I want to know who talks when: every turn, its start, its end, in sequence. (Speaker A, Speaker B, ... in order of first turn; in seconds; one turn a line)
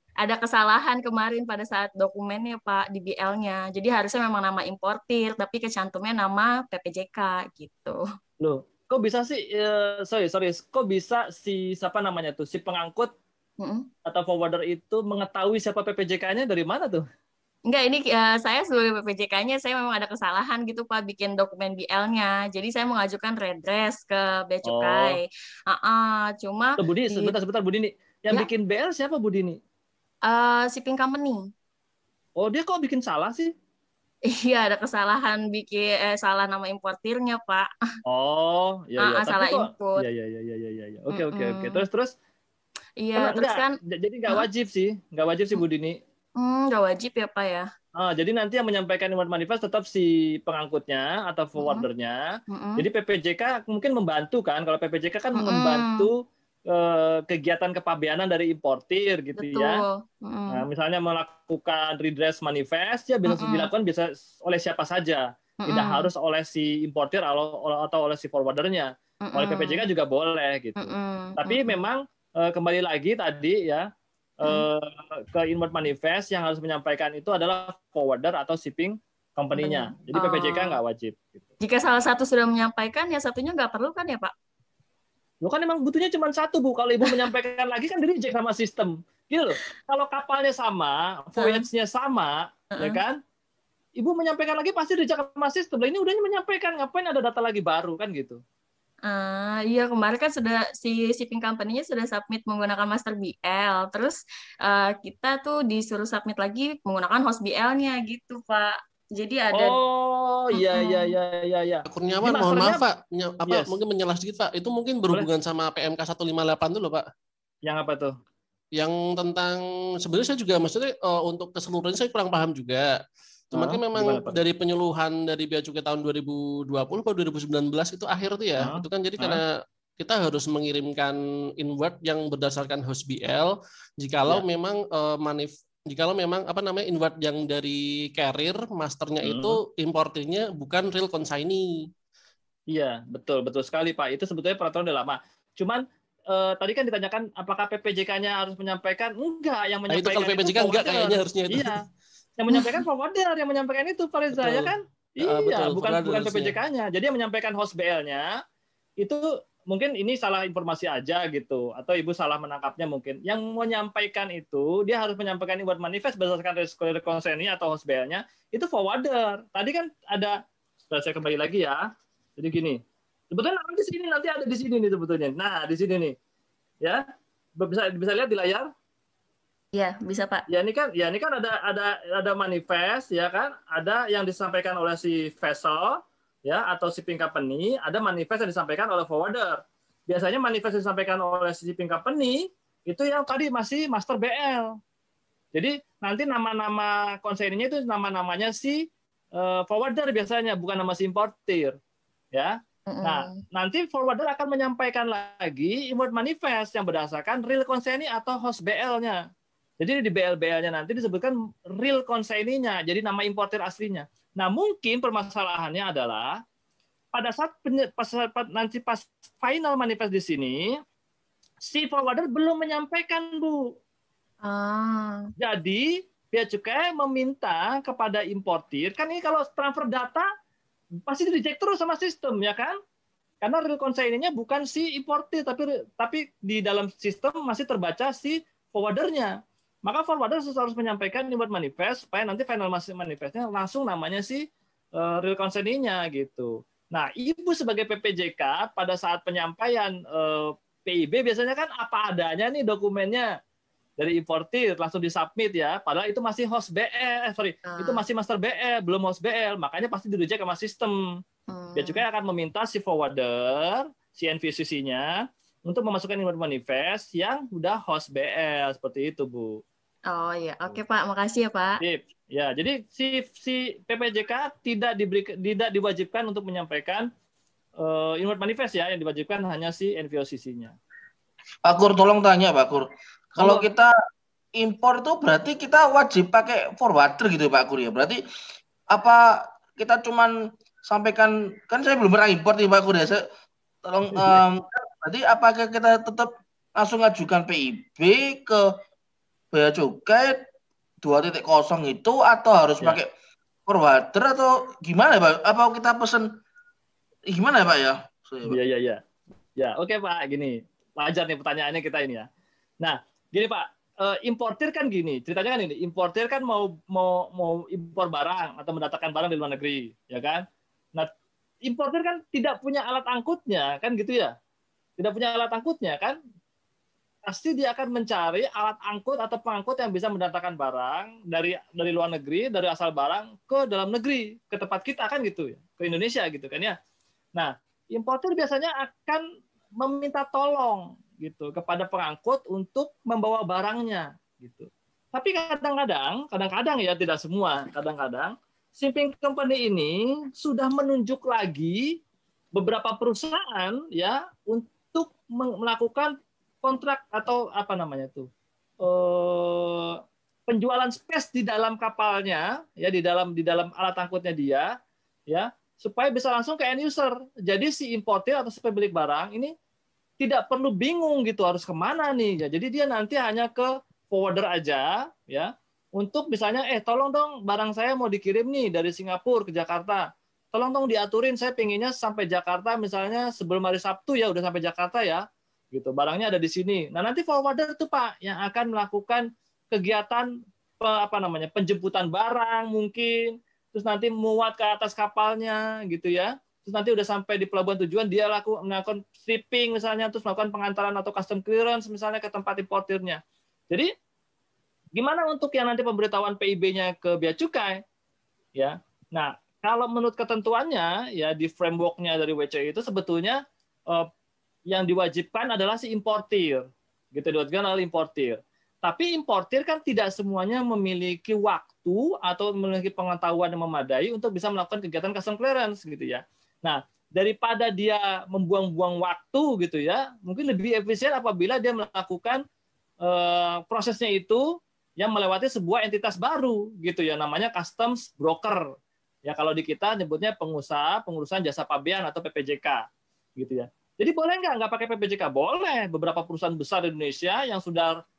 Speaker A: 0.2-8.0
Speaker B: 8.4-13.1
Speaker A: 13.6-13.9
Speaker B: 14.1-17.0
Speaker A: 17.7-27.3
Speaker B: 24.6-25.2
Speaker B: 26.8-29.6
Speaker A: 30.2-31.4
Speaker B: 32.4-33.5
Speaker A: 34.3-37.7
Speaker B: 38.1-42.1
Speaker A: 39.0-40.0
Speaker A: 41.1-41.9
Speaker A: 43.0-43.8
Speaker B: 43.2-46.0
Speaker A: 46.4-47.7
Speaker B: 48.0-52.2
Speaker A: 51.6-51.9
Speaker A: 52.5-52.9
Speaker B: 52.8-56.1
Speaker A: 55.4-56.1
Speaker B: 56.7-59.8
Speaker A: 59.4-60.6
Speaker B: 60.5-73.9
Speaker A: 63.3-63.7
Speaker A: 65.6-66.1
Speaker A: 69.2-69.9
Speaker A: 70.8-71.8
Speaker B: 74.4-81.5
Speaker A: 79.6-80.8
Speaker A: 81.6-84.3
Speaker B: 85.4-93.2
Speaker A: 87.0-87.3
Speaker A: 91.4-91.7
Speaker A: 92.7-93.0
Speaker B: 94.0-98.4
Speaker A: 99.1-109.8
Speaker B: 109.5-112.8
Speaker A: 110.5-111.2
Speaker C: 111.9-117.0
Speaker B: 113.5-113.8
Speaker B: 117.7-118.1
Speaker C: 118.8-122.9
Speaker C: 123.5-141.9
Speaker B: 123.5-124.4
Speaker B: 128.6-129.4
Speaker B: 139.2-139.6
Speaker B: 142.7-151.8
Speaker C: 149.9-151.8
Speaker B: 152.4-158.3
Speaker A: 152.5-152.8
Speaker C: 154.3-156.6
Speaker B: 159.0-170.3
Speaker B: 170.9-171.8
Speaker B: 172.4-172.8
Speaker B: 173.3-176.2
Speaker B: 177.6-178.7
Speaker A: 179.8-180.4
Speaker B: 180.5-194.7
Speaker B: 195.5-198.8
Speaker B: 199.4-201.8
Speaker B: 202.3-209.2
Speaker A: 202.9-203.4
Speaker B: 209.8-216.4
Speaker B: 217.1-220.8
Speaker B: 221.7-223.7
Speaker A: 224.4-225.3
Speaker B: 225.4-230.2
Speaker B: 231.1-232.8
Speaker B: 233.4-239.3
Speaker B: 239.9-244.4
Speaker B: 245.0-253.3
Speaker B: 254.0-261.0
Speaker A: 257.7-258.0
Speaker A: 261.5-262.0
Speaker B: 261.8-265.1
Speaker B: 265.7-269.6
Speaker A: 270.1-271.8
Speaker B: 271.8-277.1
Speaker B: 277.8-280.7
Speaker D: 281.7-283.9
Speaker B: 283.4-283.6
Speaker D: 284.6-288.2
Speaker D: 288.9-293.3
Speaker D: 293.9-298.6
Speaker D: 299.5-300.4
Speaker D: 301.0-303.1
Speaker D: 303.7-306.3
Speaker D: 307.3-308.6
Speaker B: 308.5-309.0
Speaker B: 309.6-312.3
Speaker B: 312.8-320.4
Speaker B: 321.7-324.3
Speaker B: 325.0-326.2
Speaker B: 327.3-336.8
Speaker B: 337.4-339.2
Speaker B: 339.8-351.9
Speaker B: 352.6-358.3
Speaker B: 358.8-364.7
Speaker B: 365.3-369.5
Speaker B: 370.2-390.3
Speaker B: 390.8-403.9
Speaker B: 405.0-407.8
Speaker B: 408.6-413.4
Speaker B: 414.7-432.4
Speaker B: 433.0-434.4
Speaker B: 435.0-438.7
Speaker B: 439.3-442.9
Speaker B: 443.4-448.0